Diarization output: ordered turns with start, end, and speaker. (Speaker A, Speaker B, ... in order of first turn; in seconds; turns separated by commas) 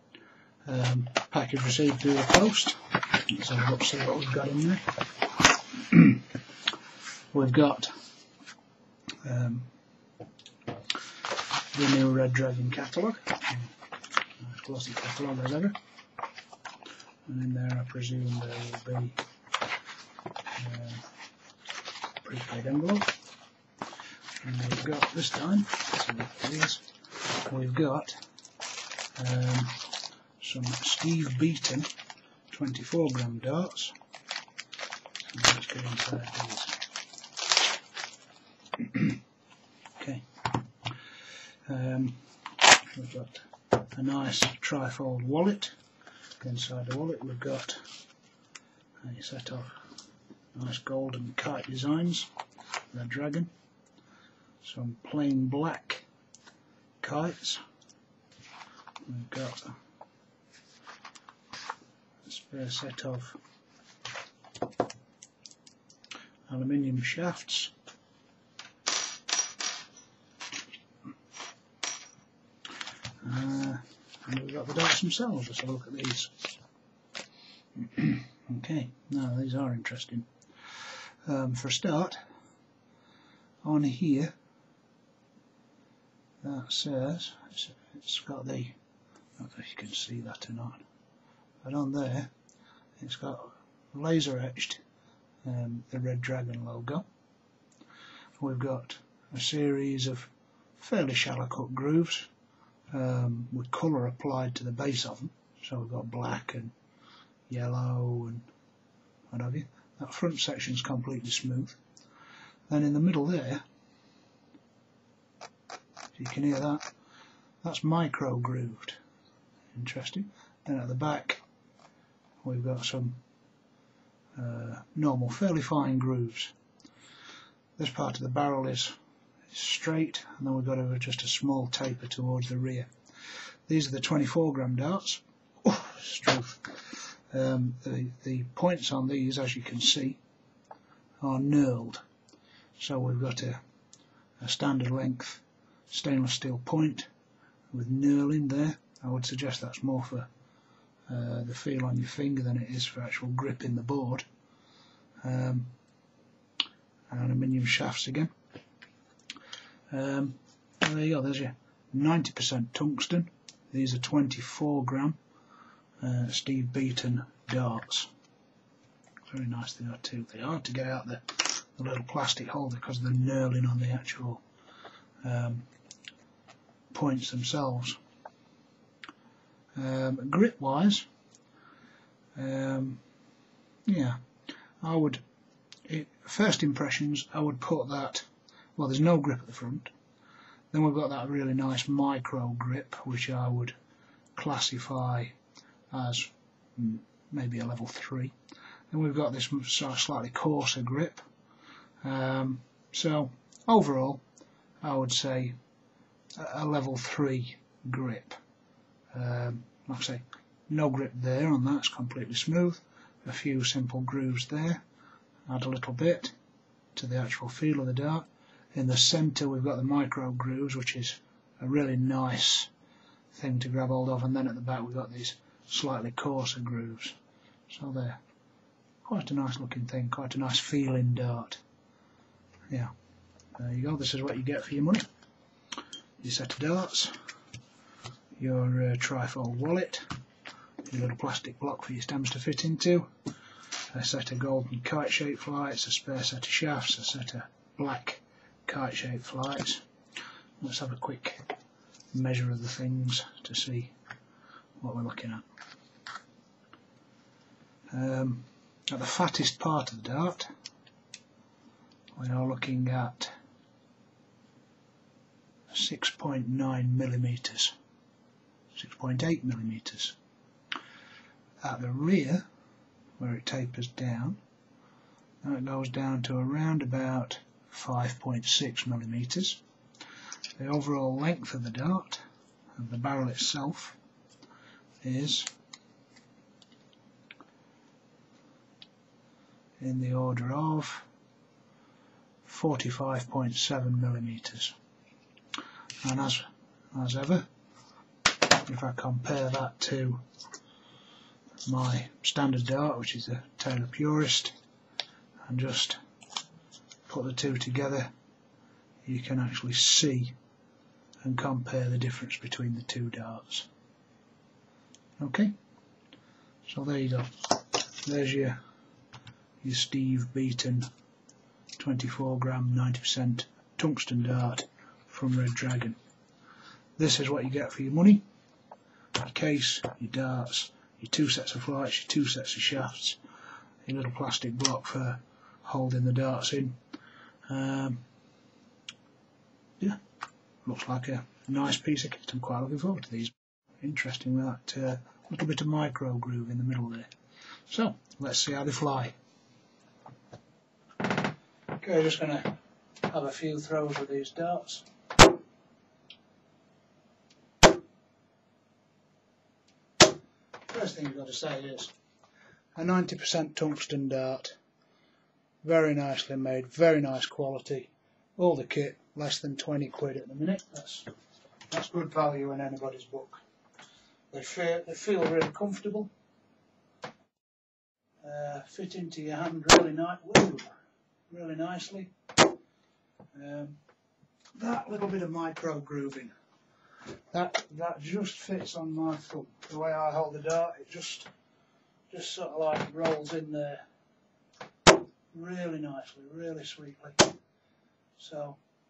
Speaker A: 0.6-5.0, Speaker A: 5.7-6.3, Speaker A: 7.3-7.9, Speaker A: 9.2-9.7, Speaker A: 11.7-13.7, Speaker A: 14.4-15.8, Speaker A: 17.3-19.2, Speaker A: 20.6-21.1, Speaker A: 22.2-23.1, Speaker A: 24.4-26.8, Speaker A: 27.4-28.2, Speaker A: 29.1-29.8, Speaker A: 30.4-31.9, Speaker A: 32.5-34.0, Speaker A: 35.2-36.8, Speaker A: 38.8-39.2, Speaker A: 40.0-40.6, Speaker A: 41.7-45.8, Speaker A: 46.4-47.9, Speaker A: 49.0-49.9, Speaker A: 50.5-52.3, Speaker A: 52.9-53.5, Speaker A: 54.6-56.0, Speaker A: 57.0-57.6, Speaker A: 59.0-59.8, Speaker A: 62.2-63.4, Speaker A: 66.5-67.7, Speaker A: 73.2-76.5, Speaker A: 77.8-82.2, Speaker A: 83.6-84.3, Speaker A: 86.4-88.8, Speaker A: 89.4-90.8, Speaker A: 91.6-92.3, Speaker A: 93.0-94.8, Speaker A: 95.4-97.0, Speaker A: 98.4-102.3, Speaker A: 102.9-106.7, Speaker A: 107.5-108.5, Speaker A: 109.3-111.8, Speaker A: 112.7-113.6, Speaker A: 116.1-116.9, Speaker A: 117.6-119.0, Speaker A: 119.7-121.4, Speaker A: 122.4-123.2, Speaker A: 124.3-126.5, Speaker A: 127.8-128.9, Speaker A: 129.5-132.9, Speaker A: 133.7-140.2, Speaker A: 141.2-142.0, Speaker A: 142.8-143.6, Speaker A: 144.4-147.1, Speaker A: 147.7-150.3, Speaker A: 151.1-154.2, Speaker A: 155.2-155.7, Speaker A: 157.1-158.3, Speaker A: 159.9-165.2, Speaker A: 166.0-168.1, Speaker A: 169.3-174.4, Speaker A: 175.2-175.7, Speaker A: 176.9-178.0, Speaker A: 179.8-181.1, Speaker A: 182.3-183.0, Speaker A: 183.8-184.2, Speaker A: 184.8-185.2, Speaker A: 185.9-189.9, Speaker A: 190.7-193.7, Speaker A: 194.3-195.3, Speaker A: 195.9-198.3, Speaker A: 198.9-201.2, Speaker A: 202.0-204.2, Speaker A: 204.8-205.6, Speaker A: 206.4-208.4, Speaker A: 209.1-214.8, Speaker A: 215.5-216.3, Speaker A: 216.9-222.7, Speaker A: 223.3-227.2, Speaker A: 227.7-228.2, Speaker A: 229.0-231.6, Speaker A: 233.6-235.1, Speaker A: 236.2-237.2, Speaker A: 238.4-240.1, Speaker A: 240.8-243.1, Speaker A: 243.9-249.8, Speaker A: 250.6-251.4, Speaker A: 252.1-253.9, Speaker A: 254.8-255.4, Speaker A: 257.9-260.5, Speaker A: 262.1-263.3, Speaker A: 265.7-267.7, Speaker A: 268.7-270.1, Speaker A: 271.6-272.4, Speaker A: 273.2-274.4, Speaker A: 275.4-279.6, Speaker A: 280.6-282.2, Speaker A: 282.8-284.0, Speaker A: 285.0-285.5, Speaker A: 289.8-291.1, Speaker A: 292.4-294.8, Speaker A: 296.0-297.5, Speaker A: 298.6-300.2, Speaker A: 301.6-304.5, Speaker A: 305.5-306.0, Speaker A: 307.1-308.1, Speaker A: 309.0-310.3, Speaker A: 311.2-313.7, Speaker A: 315.2-315.5, Speaker A: 316.6-318.6, Speaker A: 319.6-320.9, Speaker A: 321.8-326.0, Speaker A: 327.0-328.2, Speaker A: 329.1-333.2, Speaker A: 333.8-336.8, Speaker A: 337.5-338.0, Speaker A: 340.6-347.1, Speaker A: 347.7-349.1, Speaker A: 351.8-354.9, Speaker A: 360.7-361.9, Speaker A: 362.8-364.6, Speaker A: 365.6-371.1, Speaker A: 371.7-373.4, Speaker A: 374.3-376.1, Speaker A: 378.2-380.7, Speaker A: 381.3-382.1, Speaker A: 383.3-383.8, Speaker A: 384.5-386.3, Speaker A: 387.3-391.3, Speaker A: 392.1-393.8, Speaker A: 395.3-397.3, Speaker A: 398.2-398.6